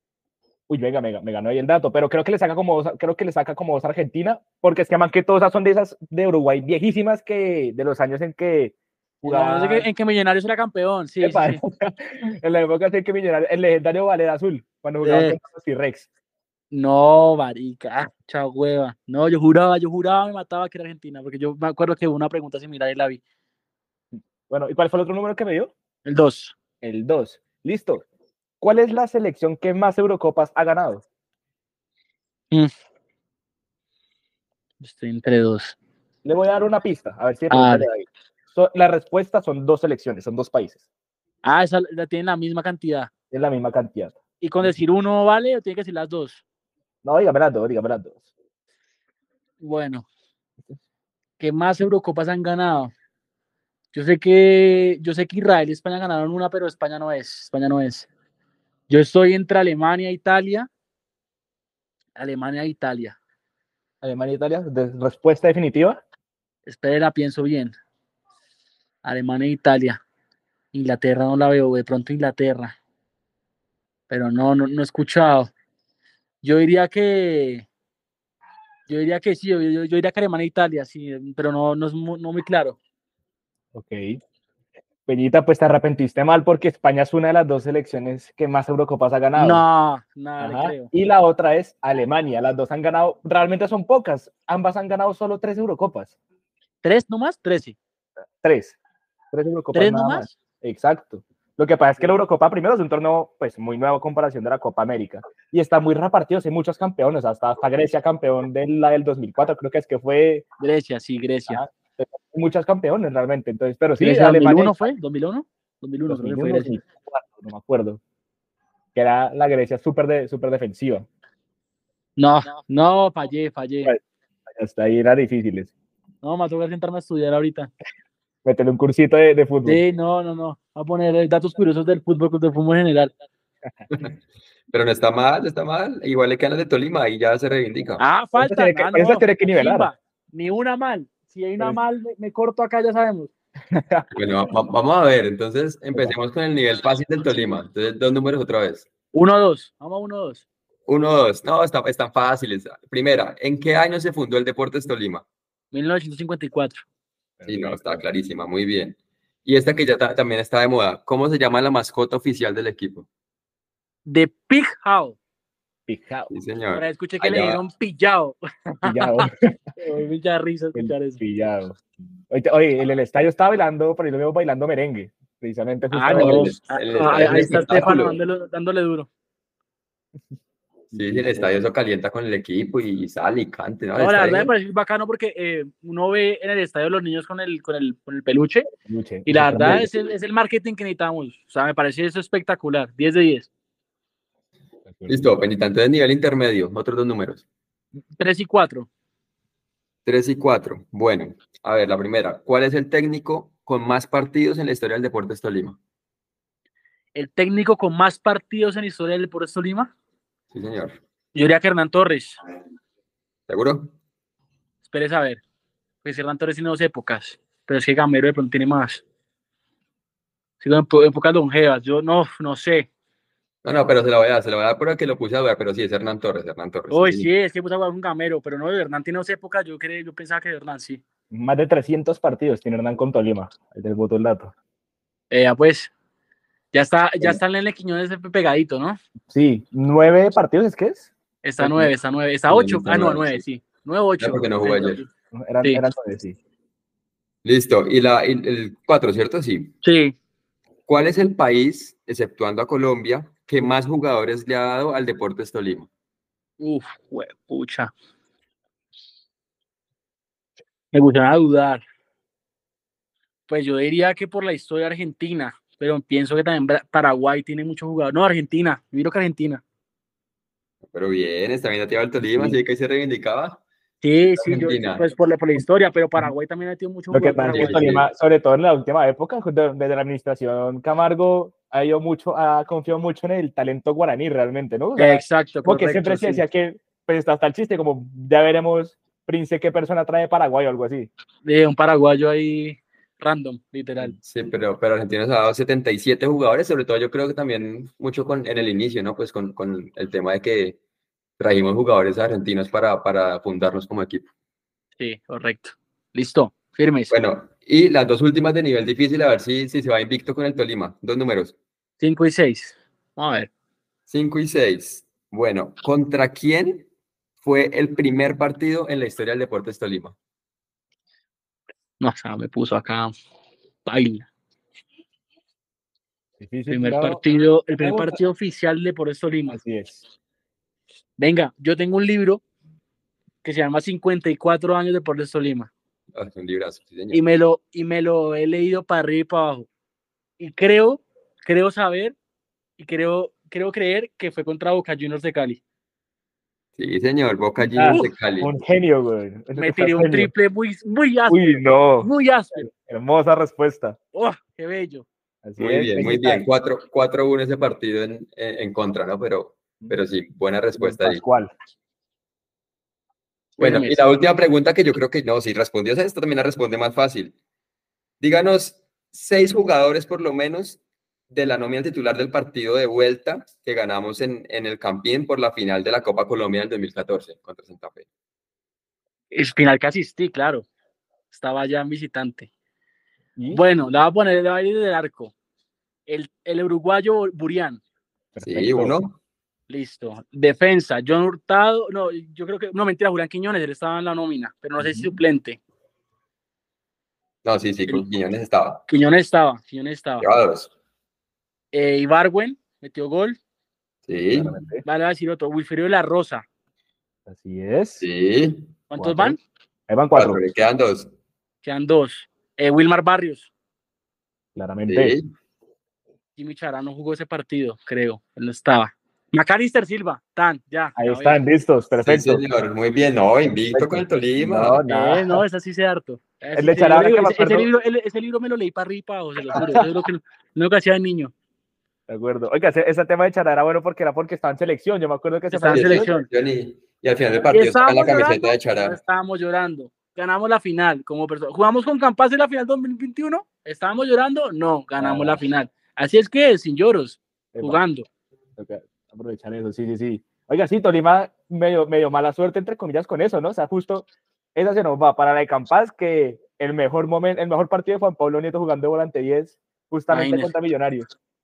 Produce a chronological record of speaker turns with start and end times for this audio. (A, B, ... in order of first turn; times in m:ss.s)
0:00.7-0:09.9 A
0:09.2-0:11.6 B
0:11.2-0:16.1 A
0:15.0-0:15.4 B
0:16.7-0:23.2 B
0:24.5-0:25.7 A
0:26.0-0:26.5 B
0:26.8-0:28.0 A
0:28.6-0:31.0 A
0:34.8-0:35.8 B
0:36.2-0:40.8 A
0:37.5-0:37.9 B
0:41.4-0:43.1 B
0:43.3-0:44.7 A
0:44.4-0:46.4 B
0:47.0-0:48.2 A
0:49.6-0:50.0 B
0:51.4-0:52.9 B
0:53.9-0:58.1 B
0:58.9-1:00.7 B
1:02.2-1:03.2 B
1:04.0-1:06.0 A
1:06.6-1:07.7 B
1:09.0-1:10.0 B
1:10.7-1:12.8 B
1:14.1-1:15.5 B
1:16.4-1:17.7 B
1:18.9-1:22.8 B
1:23.7-1:24.2 A
1:25.1-1:29.6 A
1:29.4-1:30.9 B
1:30.4-1:36.1 A
1:36.8-1:37.8 B
1:38.4-1:38.8 A
1:39.3-1:50.4 A
1:39.7-1:40.3 B
1:50.6-1:51.6 B
1:51.5-1:54.9 A
1:54.0-1:56.7 B
1:56.1-1:58.0 A
1:58.9-2:01.1 A
2:02.2-2:03.9 B
2:03.8-2:05.7 A
2:06.2-2:07.7 B
2:08.4-2:09.8 A
2:09.6-2:13.1 B
2:14.7-2:18.0 C
2:18.0-2:23.3 B
2:18.4-2:19.9 A
2:23.7-2:24.1 A
2:24.1-2:28.9 C
2:29.1-2:30.4 B
2:30.9-2:35.2 C
2:35.7-2:36.8 B
2:37.4-2:38.0 A
2:37.4-2:43.1 C
2:44.0-2:45.2 B
2:45.9-2:46.3 A
2:46.3-2:47.6 C
2:46.8-2:49.2 B
2:48.8-2:49.5 A
2:49.8-2:51.2 B
2:50.7-2:51.8 A
2:52.3-2:56.6 A
2:55.9-2:59.1 B
2:56.1-2:58.2 C
2:57.2-2:57.7 A
3:00.9-3:01.4 A
3:00.9-3:04.5 C
3:04.0-3:08.7 B
3:08.9-3:09.9 A
3:09.2-3:13.5 B
3:14.9-3:15.3 A
3:15.1-3:17.4 C
3:18.2-3:18.9 B
3:20.0-3:25.8 C
3:27.1-3:29.9 B
3:30.5-3:31.0 C
3:31.3-3:32.4 B
3:33.5-3:33.9 C
3:34.8-3:35.4 B
3:36.0-3:39.0 B
3:40.6-3:42.9 B
3:43.6-3:47.3 C
3:46.9-3:51.0 B
3:51.3-3:54.5 A
3:55.3-3:55.9 B
3:56.7-3:59.0 B
3:59.3-4:01.9 A
4:01.4-4:05.1 B
4:02.5-4:03.4 C
4:04.2-4:05.0 C
4:05.3-4:06.4 A
4:07.4-4:09.7 C
4:09.8-4:10.1 B
4:10.9-4:15.9 C
4:16.6-4:17.9 B
4:20.9-4:21.8 B
4:23.5-4:29.6 B
4:30.9-4:33.6 C
4:34.0-4:37.9 B
4:34.4-4:35.0 C
4:37.1-4:51.1 A
4:37.5-4:38.0 C
4:45.0-4:46.4 B
4:51.4-4:54.1 B
4:54.2-5:00.8 C
5:01.4-5:04.2 C
5:05.0-5:07.1 B
5:07.1-5:11.5 C
5:12.0-5:13.5 B
5:14.1-5:16.9 C
5:17.4-5:20.1 C
5:22.0-5:23.1 B
5:23.8-5:24.3 B
5:26.4-5:27.2 A
5:26.7-5:29.6 B
5:27.8-5:28.2 A
5:29.5-5:30.0 A
5:31.2-5:32.4 B
5:33.4-5:35.7 B
5:36.1-5:37.2 C
5:37.1-5:39.7 B
5:40.4-5:42.2 B
5:42.8-5:45.6 B
5:46.8-5:48.5 C
5:47.6-5:50.3 A
5:47.8-5:48.1 B
5:49.6-5:52.7 B
5:51.3-5:54.0 A
5:54.1-5:55.0 B
5:55.4-5:56.4 A
5:55.6-6:01.2 C
6:00.8-6:01.5 A
6:03.6-6:04.0 B
6:03.6-6:07.3 C
6:08.2-6:10.8 C
6:11.3-6:18.0 C
6:19.3-6:20.6 B
6:21.3-6:22.5 B
6:23.4-6:23.6 A
6:23.5-6:25.3 B
6:26.1-6:27.8 B
6:28.3-6:29.0 A
6:28.4-6:29.2 C
6:29.7-6:35.6 B
6:34.8-6:35.1 A
6:37.4-6:38.8 C
6:38.9-6:40.3 B
6:40.2-6:40.7 C
6:41.7-6:43.4 B
6:44.1-6:44.5 C
6:44.3-6:44.8 A
6:44.8-6:46.4 B
6:47.3-6:48.0 A
6:48.0-6:48.7 C
6:48.9-6:49.4 B
6:49.0-6:49.4 A
6:49.9-6:50.4 A
6:50.1-6:51.1 C
6:51.6-6:53.5 B
6:54.5-6:55.2 A
6:54.9-6:55.3 C
6:56.4-7:01.4 B
7:01.0-7:02.4 A
7:02.0-7:04.8 C
7:03.7-7:05.4 A
7:04.9-7:11.3 B
7:06.6-7:07.7 A
7:09.5-7:09.9 A
7:12.1-7:16.1 A
7:15.5-7:16.3 B
7:15.7-7:19.0 C
7:17.5-7:28.0 B
7:25.0-7:25.4 A
7:27.5-7:27.8 A
7:28.6-7:41.1 A
7:40.1-7:40.5 B